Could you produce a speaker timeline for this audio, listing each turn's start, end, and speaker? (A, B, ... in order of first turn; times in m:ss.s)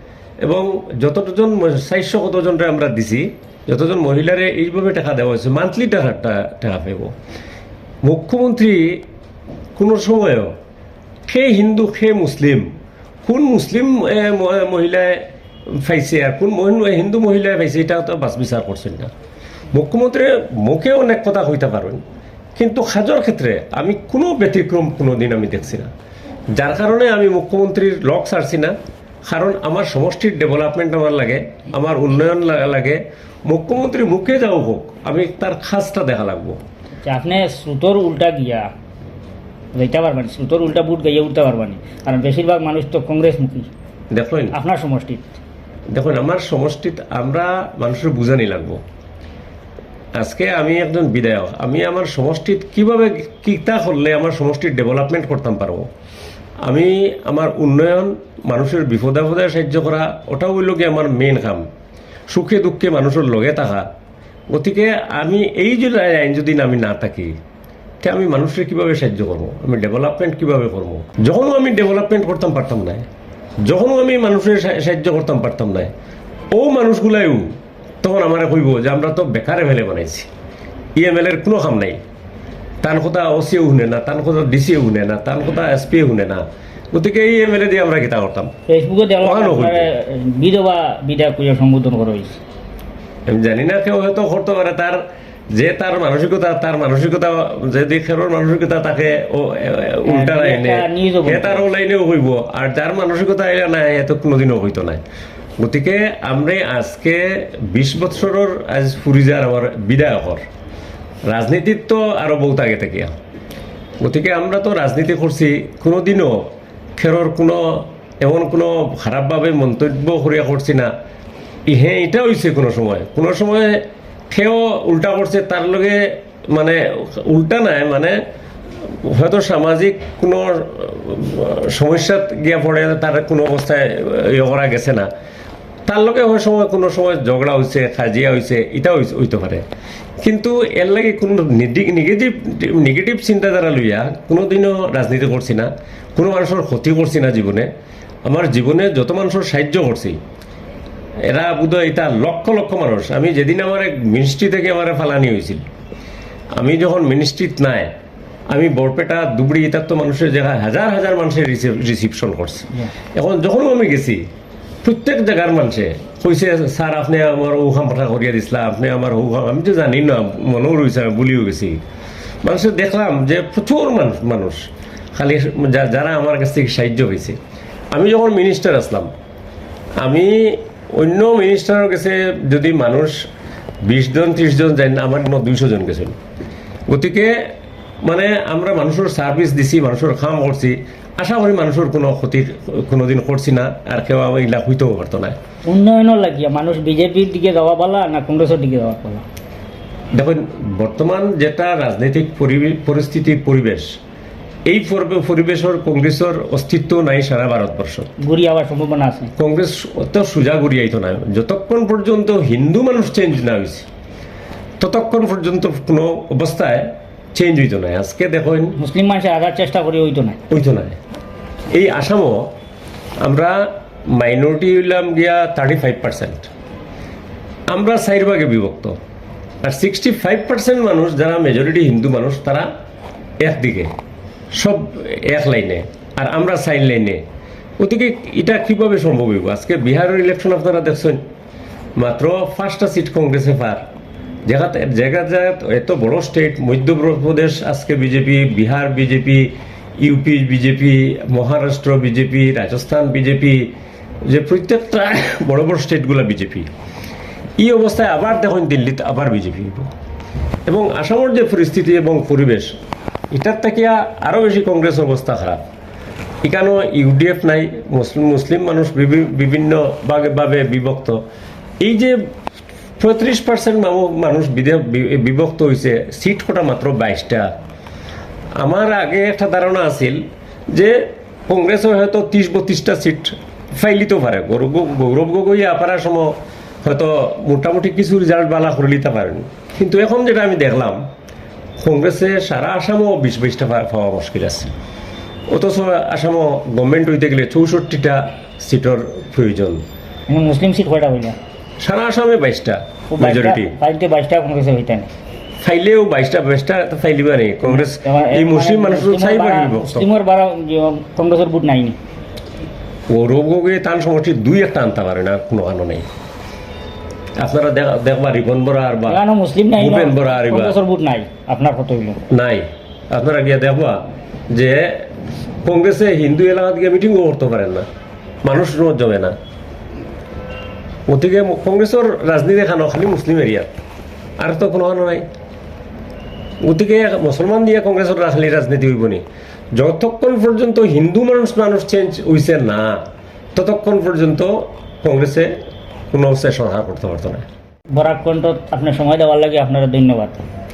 0:00.4-0:07.1 A
0:08.0-0:09.0 A
0:09.8-0:10.5 A
0:11.3-0:12.7 A
0:13.2-0:19.1 A
0:19.7-0:22.0 A
0:22.6-0:25.9 A
0:26.5-0:36.6 A
0:37.0-0:38.7 B
0:39.7-0:43.7 B
0:44.1-0:44.5 A
0:44.5-0:45.4 B
0:45.9-0:48.8 A
0:50.2-0:55.8 A
0:56.6-1:01.6 A
1:02.3-1:03.8 A
1:04.5-1:07.3 A
1:08.0-1:13.0 A
1:13.6-1:15.9 A
1:16.5-1:17.5 A
1:18.0-1:20.3 A
1:21.0-1:22.0 A
1:22.8-1:28.5 A
1:28.7-1:32.4 B
1:29.2-1:29.9 A
1:33.3-1:35.0 A
1:35.5-1:45.0 A
1:40.0-1:41.7 B
1:45.6-1:50.4 A
1:51.3-1:53.1 A
1:54.0-1:56.4 A
1:57.0-2:00.9 A
2:01.7-2:08.2 A
2:08.8-2:15.1 A
2:15.9-2:19.6 A
2:20.2-2:27.7 A
2:28.2-2:30.2 A
2:31.3-2:35.6 A
2:36.5-2:37.9 A
2:38.5-2:44.2 A
2:44.8-2:51.8 A
2:52.4-2:57.4 A
2:57.9-2:59.1 A
3:00.0-3:03.1 A
3:03.8-3:06.1 A
3:06.9-3:07.3 A
3:08.0-3:15.4 A
3:15.6-3:19.2 B
3:20.1-3:23.9 A
3:24.7-3:28.1 A
3:28.2-3:29.3 B
3:29.4-3:33.9 A
3:34.8-3:38.7 A
3:38.8-3:40.4 B
3:40.5-3:41.0 A
3:41.7-3:42.5 A
3:43.2-3:46.5 A
3:47.7-3:49.0 A
3:49.6-3:52.7 A
3:53.4-3:53.9 A
3:54.6-3:57.2 A
3:57.8-4:01.2 A
4:02.0-4:03.8 A
4:04.4-4:13.7 A
4:14.2-4:16.7 A
4:17.6-4:19.9 A
4:20.7-4:22.8 A
4:23.3-4:25.6 A
4:26.4-4:31.2 A
4:31.8-4:32.2 A
4:33.0-4:37.5 A
4:38.6-4:40.2 A
4:40.7-4:41.0 A
4:41.5-4:46.3 A
4:46.8-4:51.0 A
4:51.8-4:54.7 A
4:55.5-4:59.8 A
5:00.3-5:01.4 B
5:01.8-5:03.7 A
5:03.1-5:05.1 B
5:05.6-5:10.1 A
5:07.6-5:12.0 B
5:13.1-5:16.0 A
5:17.4-5:19.2 A
5:19.1-5:22.2 B
5:19.8-5:20.8 A
5:22.3-5:25.1 A
5:25.6-5:27.8 A
5:28.4-5:29.3 A
5:31.1-5:33.7 A
5:34.4-5:35.2 A
5:36.6-5:39.2 A
5:39.7-5:43.0 A
5:43.5-5:45.5 A
5:46.1-5:47.4 A
5:47.9-5:50.4 B